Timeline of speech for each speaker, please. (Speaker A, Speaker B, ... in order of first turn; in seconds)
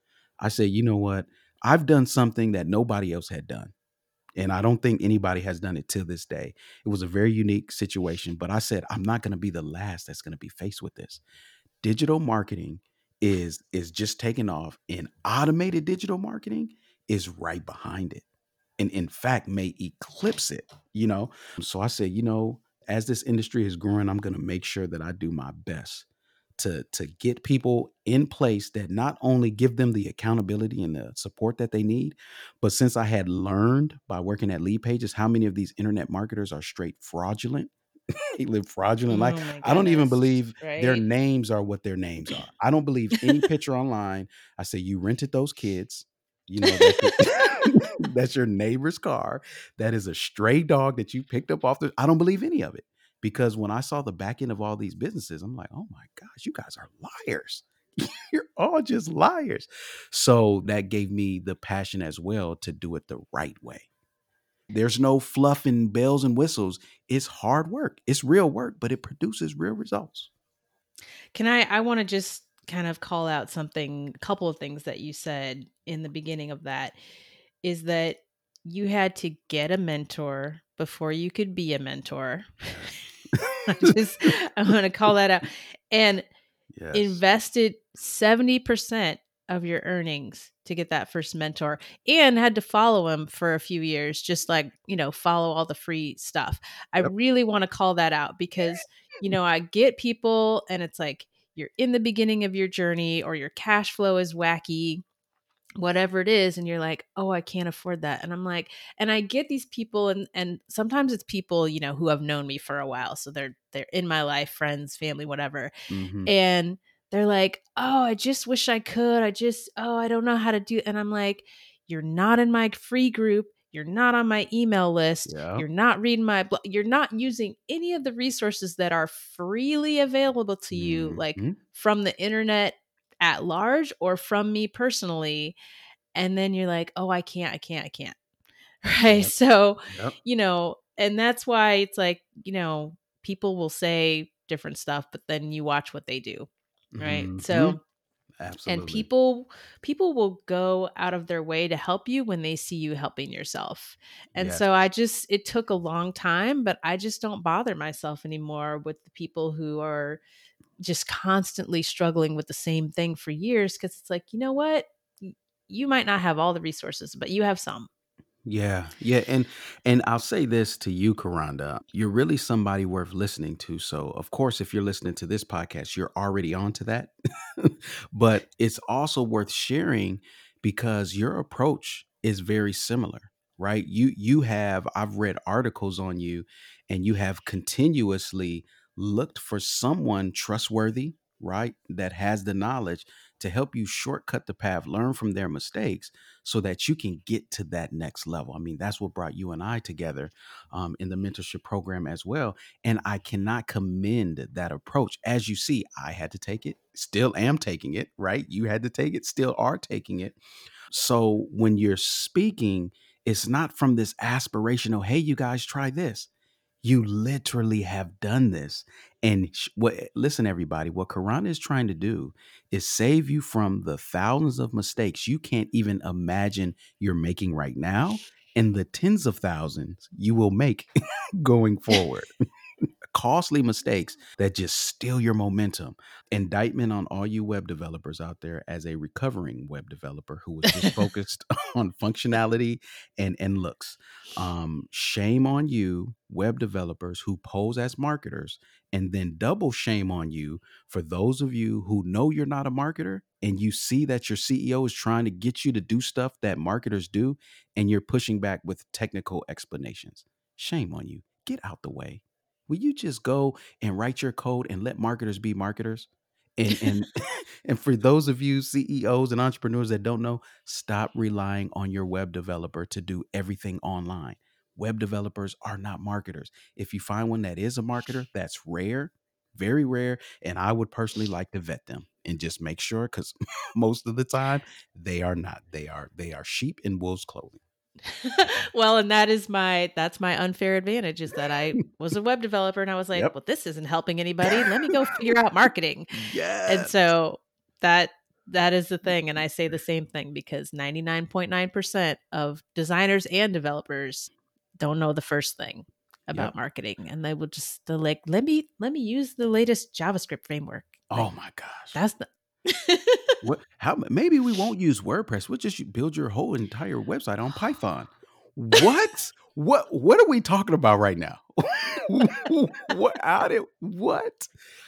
Speaker A: 0.4-3.7, 4.4-11.2, 11.8-18.2, 18.8-26.1, 26.6-37.7, 38.4-63.9, 64.7-70.3, 82.7-83.9, 86.7-87.2, 115.9-116.3, 125.3-125.7, 130.7-131.6, 139.1-139.3, 139.9-140.2, 146.9-147.8, 148.4-149.1, 154.4-154.7, 168.5-210.4, 210.9-216.3, 216.8-232.3, 233.1-287.6, 294.4-295.1, 296.1-297.1, 311.1-312.0, 313.4-324.5
Speaker B: 39.1-41.0, 46.6-47.1, 71.3-77.0, 77.6-82.7, 83.7-86.3, 86.9-105.0, 105.8-115.7, 116.2-135.6, 136.1-138.2, 138.8-146.5, 147.0-147.8, 148.7-160.2, 160.8-167.9, 288.2-296.1, 296.7-311.3, 311.9-313.4